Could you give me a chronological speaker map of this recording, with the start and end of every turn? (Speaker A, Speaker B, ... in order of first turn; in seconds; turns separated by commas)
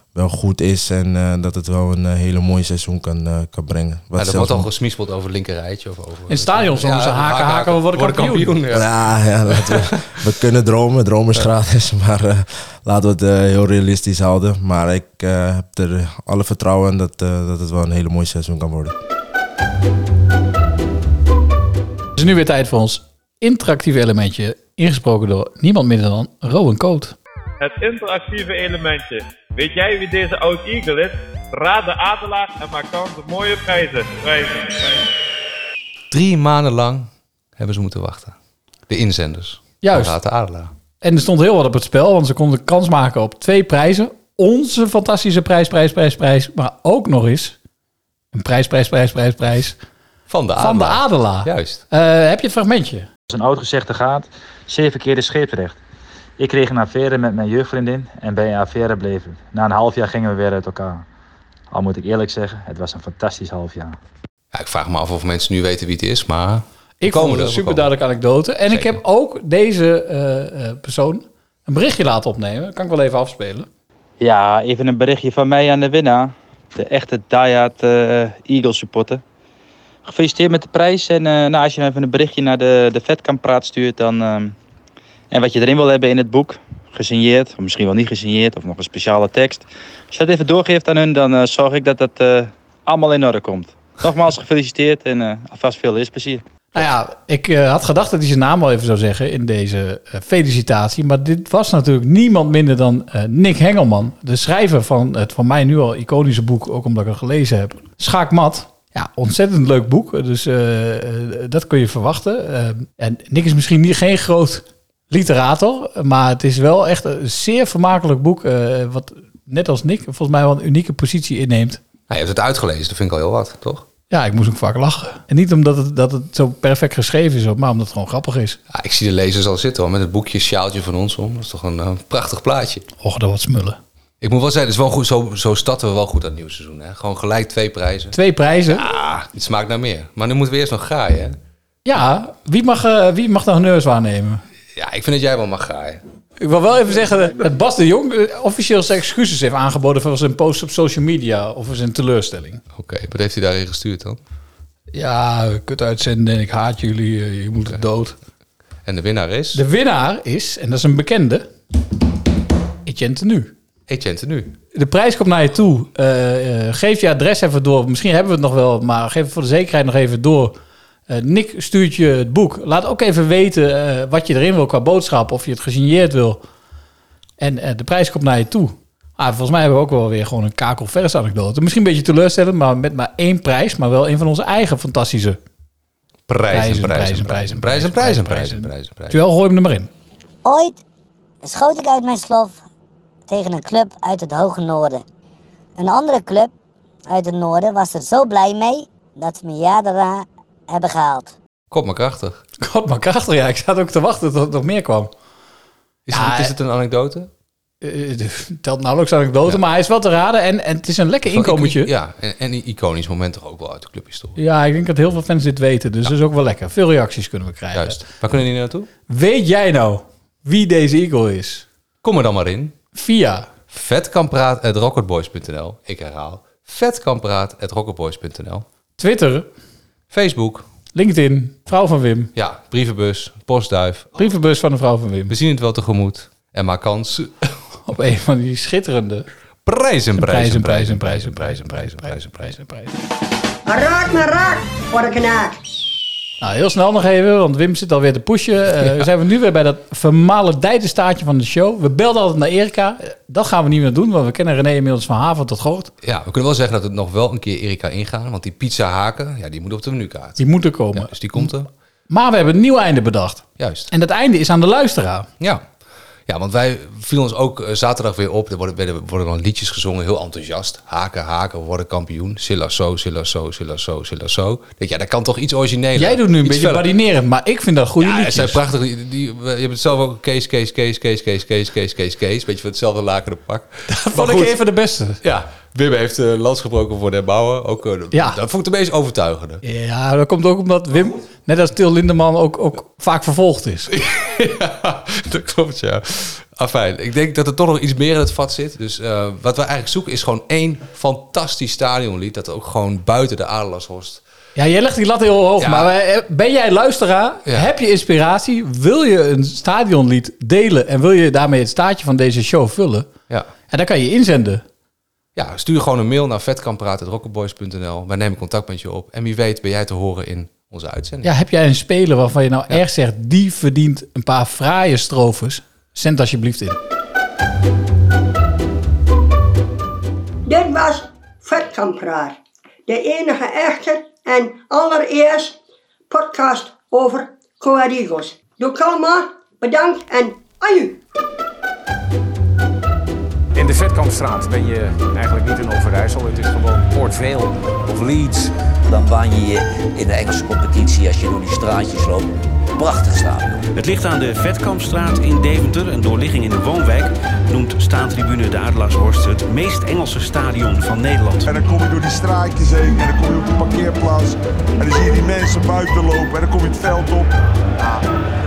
Speaker A: 0.1-4.7, Speaker B: 4.2-10.3, Speaker C: 6.3-8.6, Speaker A: 8.7-18.9, Speaker C: 22.2-27.1, Speaker D: 27.6-35.0, Speaker B: 36.1-38.4, Speaker B: 38.9-40.7, Speaker C: 39.8-40.2, Speaker C: 41.0-47.6, Speaker C: 48.3-49.8, Speaker B: 50.3-51.8, Speaker C: 50.6-53.1, Speaker E: 53.3-55.8, Speaker E: 56.4-61.0, Speaker E: 61.7-64.0, Speaker B: 64.5-67.9, Speaker C: 67.0-73.7, Speaker B: 68.7-69.0, Speaker E: 74.2-79.2, Speaker E: 80.0-84.5, Speaker E: 85.3-96.4, Speaker C: 96.8-121.8, Speaker B: 122.1-123.8, Speaker C: 124.1-128.6, Speaker B: 128.7-132.9, Speaker C: 133.0-133.8, Speaker B: 134.2-138.2, Speaker C: 138.1-138.8, Speaker B: 138.7-141.4, Speaker C: 141.9-144.4, Speaker B: 144.8-146.0, Speaker C: 146.4-152.6, Speaker B: 152.7-154.2, Speaker C: 154.9-158.2, Speaker B: 158.9-159.6, Speaker C: 159.5-161.5, Speaker C: 162.9-163.5, Speaker B: 163.9-164.6, Speaker C: 164.7-170.6, Speaker C: 171.1-176.4, Speaker C: 177.4-185.4, Speaker B: 186.3-189.2, Speaker C: 186.5-189.9, Speaker F: 190.4-190.8, Speaker F: 191.4-192.6, Speaker F: 193.3-195.0, Speaker F: 195.8-196.5, Speaker F: 197.1-201.3, Speaker B: 201.7-202.4, Speaker C: 202.6-205.1, Speaker B: 206.1-207.3, Speaker C: 206.1-206.5, Speaker C: 207.8-211.9, Speaker B: 211.3-214.4, Speaker C: 214.4-218.0, Speaker B: 217.7-218.9, Speaker C: 219.1-221.7, Speaker B: 222.0-222.7, Speaker C: 222.9-223.5, Speaker B: 223.7-228.7, Speaker C: 229.0-229.5, Speaker B: 230.1-230.7, Speaker C: 230.9-232.3, Speaker B: 232.3-234.1, Speaker C: 234.2-235.3, Speaker B: 235.3-237.6, Speaker C: 237.9-239.3, Speaker B: 239.7-242.6, Speaker C: 240.2-242.9, Speaker G: 243.7-245.6, Speaker C: 246.4-255.9, Speaker B: 256.0-261.7, Speaker C: 260.4-261.5, Speaker C: 262.1-265.3, Speaker B: 263.6-263.9, Speaker B: 265.4-265.6, Speaker B: 266.3-276.9, Speaker C: 276.0-278.6, Speaker B: 278.0-284.6, Speaker C: 283.9-285.2, Speaker B: 285.2-289.6, Speaker C: 288.1-288.4, Speaker C: 289.6-293.9, Speaker B: 293.9-304.2, Speaker C: 304.6-313.1, Speaker B: 305.6-305.9, Speaker C: 313.7-314.6, Speaker B: 315.4-321.3, Speaker C: 321.2-326.8, Speaker G: 330.5-332.4, Speaker G: 332.9-335.6, Speaker G: 336.1-341.0, Speaker H: 343.6-347.6, Speaker I: 347.8-353.7, Speaker J: 353.8-361.5, Speaker K: 361.5-368.0